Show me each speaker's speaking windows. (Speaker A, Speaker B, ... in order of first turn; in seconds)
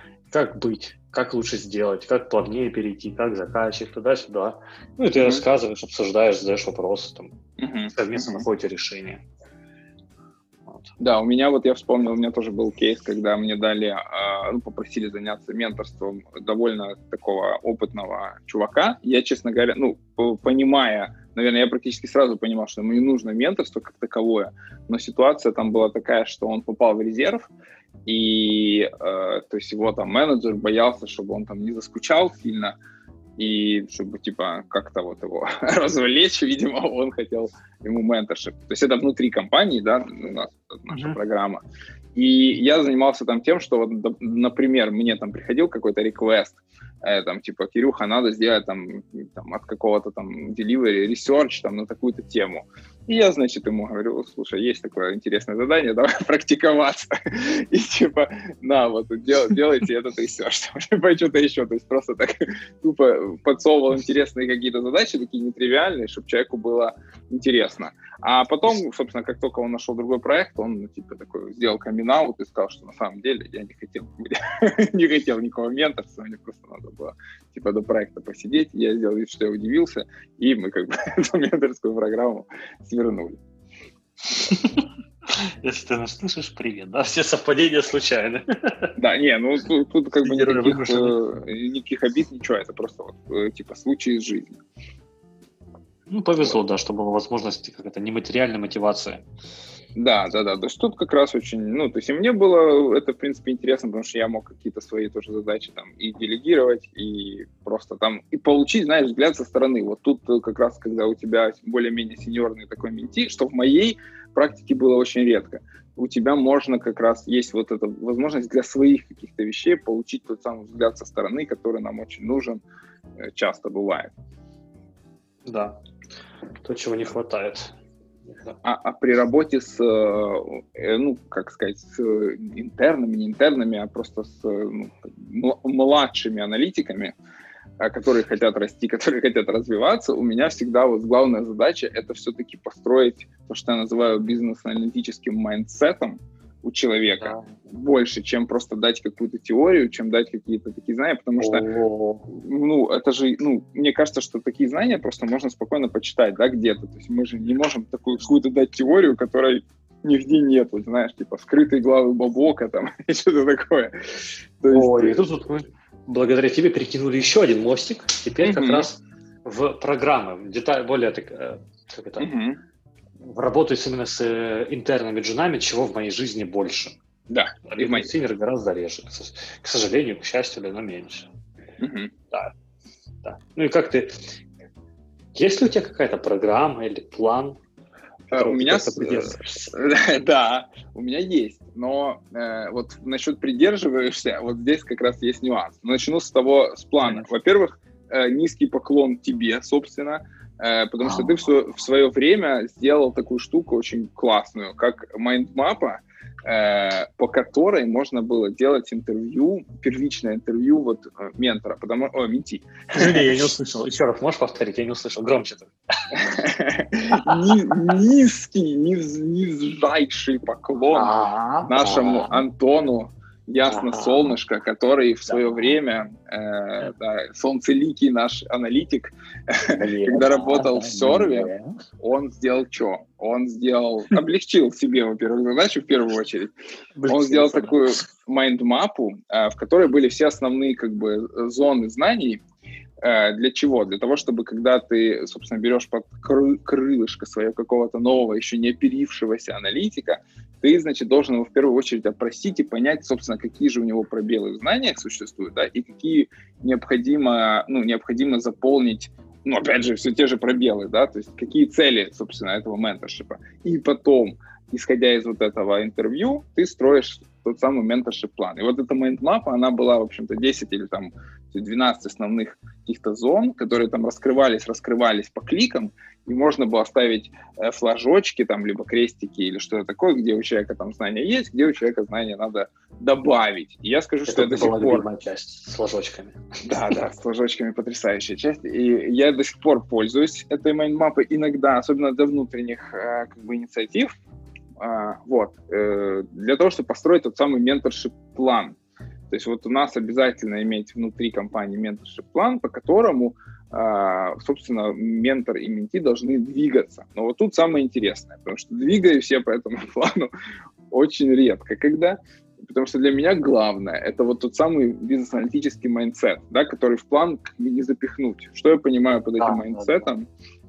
Speaker A: 0.3-7.3, 7.9-9.2, 10.7-10.9, 40.9-41.2, 84.4-88.9, 90.2-91.2, 96.1-99.2, 125.5-125.8, 126.6-127.7, 128.3-128.6, 147.2-147.6, 151.4-152.3, 164.7-172.3, 173.2-176.9, 177.7-181.3, 183.2-184.2, 185.3-187.6, 188.3-189.7, 197.0-197.3, 201.0-201.4, 212.9-216.4, 217.1-217.9, 220.9-222.4, 223.7-224.3, 225.3-225.8, 229.7-231.8, 237.0-238.0, 284.3-287.0, 319.4-320.1
Speaker B: 5.2-5.4, 7.6-8.4, 11.0-27.5, 28.1-32.8, 33.4-41.6, 42.1-83.4, 89.0-94.6, 99.9-122.6, 123.2-124.1, 128.6-137.1, 137.8-151.7, 152.3-165.2, 168.4-168.9, 172.2-172.6, 177.3-178.1, 181.8-182.1, 188.3-213.3, 216.1-221.1, 221.7-236.5, 237.1-242.4, 243.0-285.1, 286.6-294.1, 294.8-298.8, 299.3-310.3, 310.9-320.3